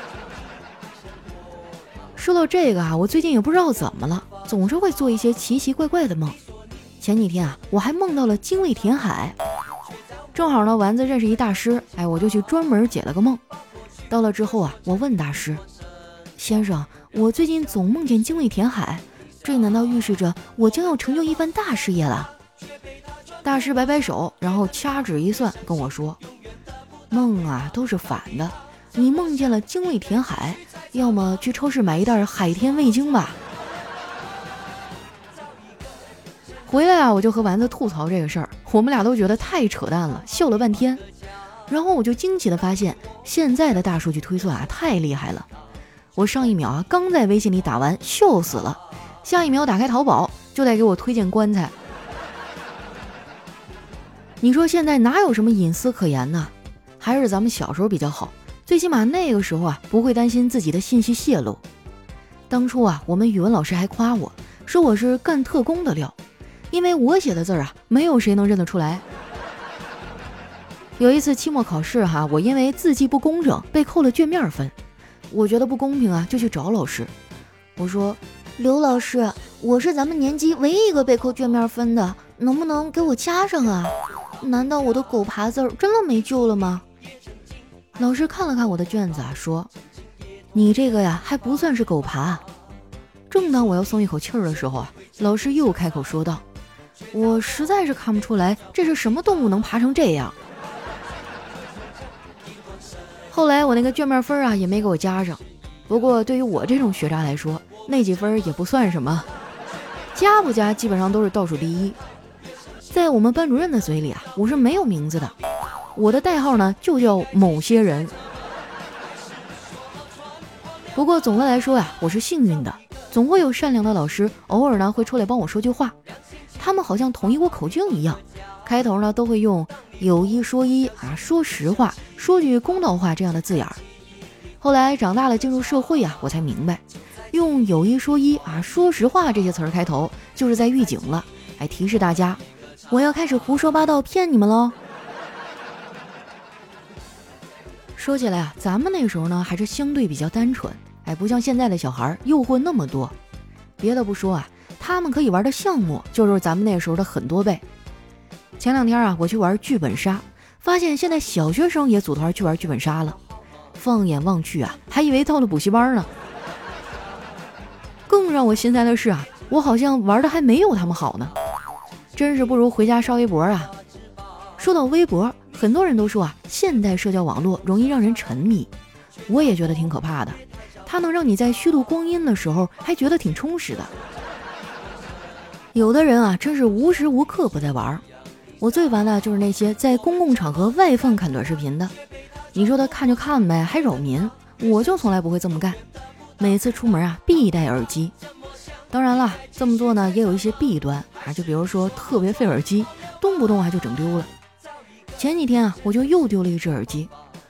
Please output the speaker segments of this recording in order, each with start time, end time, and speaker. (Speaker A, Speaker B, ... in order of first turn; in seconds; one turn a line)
Speaker A: 2.1-6.4
Speaker A: 7.0-9.3
Speaker A: 10.3-13.4
Speaker A: 14.1-15.6
Speaker A: 16.4-22.3
Speaker A: 23.4-26.2
Speaker A: 27.1-33.4
Speaker A: 36.7-41.0
Speaker A: 41.7-45.5
Speaker A: 46.1-51.7
Speaker A: 54.4-61.6
Speaker A: 62.5-66.1
Speaker A: 66.7-69.0
Speaker A: 71.0-74.7
Speaker A: 75.3-77.1
Speaker A: 77.8-86.8
Speaker A: 88.0-89.7
Speaker A: 90.5-92.4
Speaker A: 93.3-96.4
Speaker A: 97.1-100.3
Speaker A: 103.3-109.3
Speaker A: 110.1-112.0
Speaker A: 112.9-115.3
Speaker A: 115.9-118.1
Speaker A: 120.9-125.9
Speaker A: 126.6-133.8
Speaker A: 134.6-136.8
Speaker A: 137.3-144.7
Speaker A: 147.9-153.1
Speaker A: 153.8-157.6
Speaker A: 158.6-163.2
Speaker A: 163.8-166.1
Speaker A: 168.1-171.3
Speaker A: 172.1-173.7
Speaker A: 174.6-178.7
Speaker A: 179.3-183.9
Speaker A: 185.7-188.0
Speaker A: 188.6-191.9
Speaker A: 192.5-195.8
Speaker A: 196.4-198.1
Speaker A: 198.9-204.3
Speaker A: 205.2-207.1